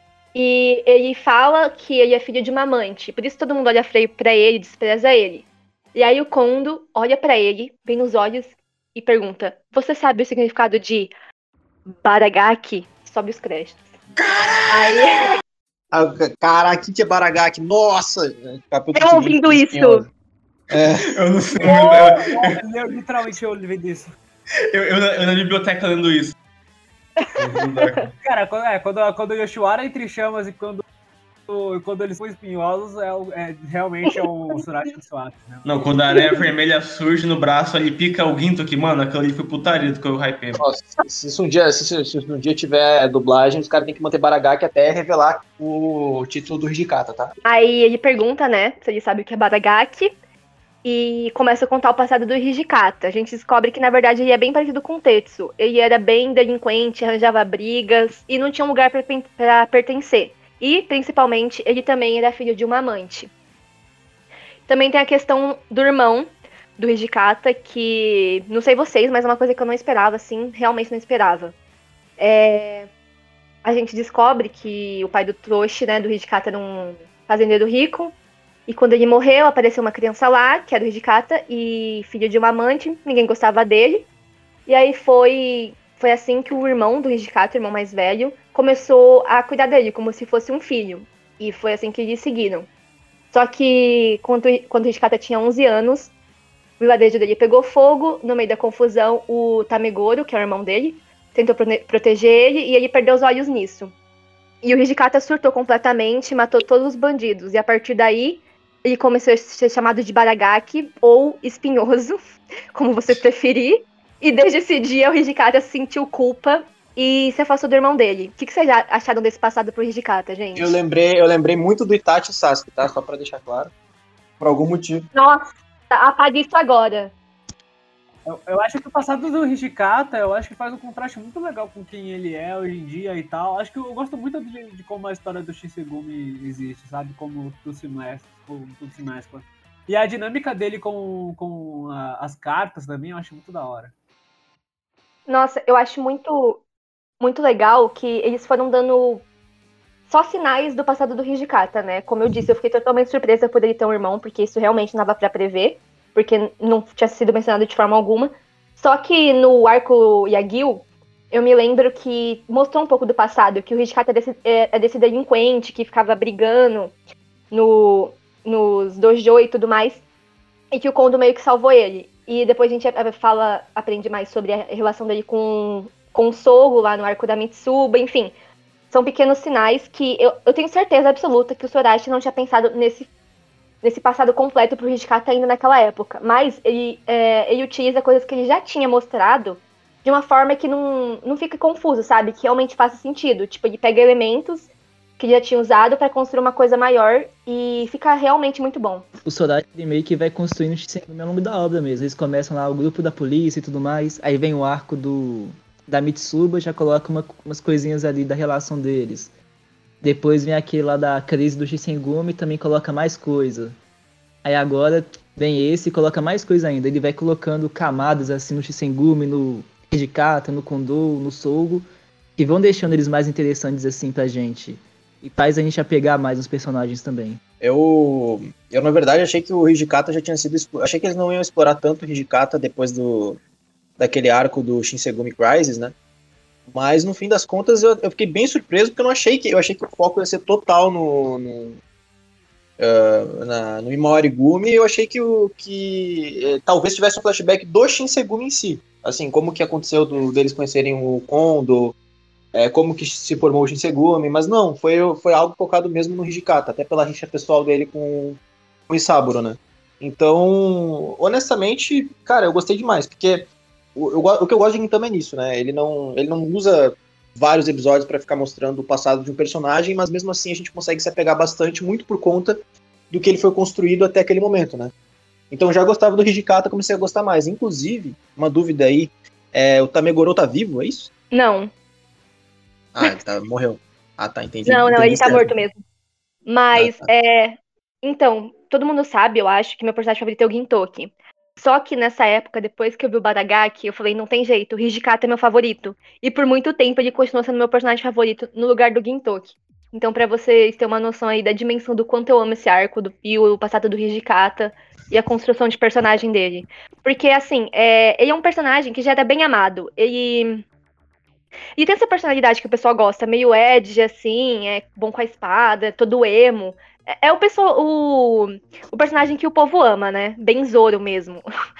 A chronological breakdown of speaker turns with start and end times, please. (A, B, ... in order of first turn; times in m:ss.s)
0:00.3-0:11.1 A
0:11.9-0:13.9 A
0:14.2-0:15.2 B
0:14.7-0:15.4 A
0:15.9-0:20.1 C
0:18.9-0:20.0 A
0:20.7-0:21.2 C
0:20.8-0:22.6 B
0:21.6-0:24.1 D
0:24.7-0:26.4 B
0:27.4-0:28.1 B
0:28.2-0:30.8 D
0:31.5-0:36.2 D
0:35.6-0:40.6 B
0:40.6-0:47.3 C
0:47.4-0:50.1 A
0:50.8-1:03.3 A
1:04.7-1:11.6 A
1:12.2-1:12.9 A
1:13.6-1:18.2 A
1:18.7-1:24.1 A
1:24.7-1:32.7 A
1:33.3-1:36.1 A
1:36.8-1:43.9 A
1:44.6-1:52.2 A
1:52.7-2:00.8 A
2:00.6-2:03.7 C
2:04.4-2:05.1 C
2:05.1-2:07.1 A
2:08.3-2:23.9 D
2:25.3-2:26.6 A
2:27.2-2:29.2 A
2:30.1-2:46.9 A
2:47.5-2:50.0 A
2:50.7-2:58.4 A
2:58.9-3:03.1 A
3:03.8-3:19.1 A
3:19.2-3:29.3 E
3:30.0-3:33.8 E
3:34.4-3:41.8 E
3:42.4-3:47.4 E
3:47.6-3:53.4 C
3:54.0-3:55.9 C
3:56.7-4:01.8 C
4:02.8-4:12.0 C
4:12.5-4:34.9 C
4:35.5-4:41.1 C
4:41.3-4:41.7 A
4:43.0-4:45.5 C
4:44.7-4:45.8 A
4:46.5-5:10.6 A
4:46.8-4:47.1 C
5:11.8-5:21.4 A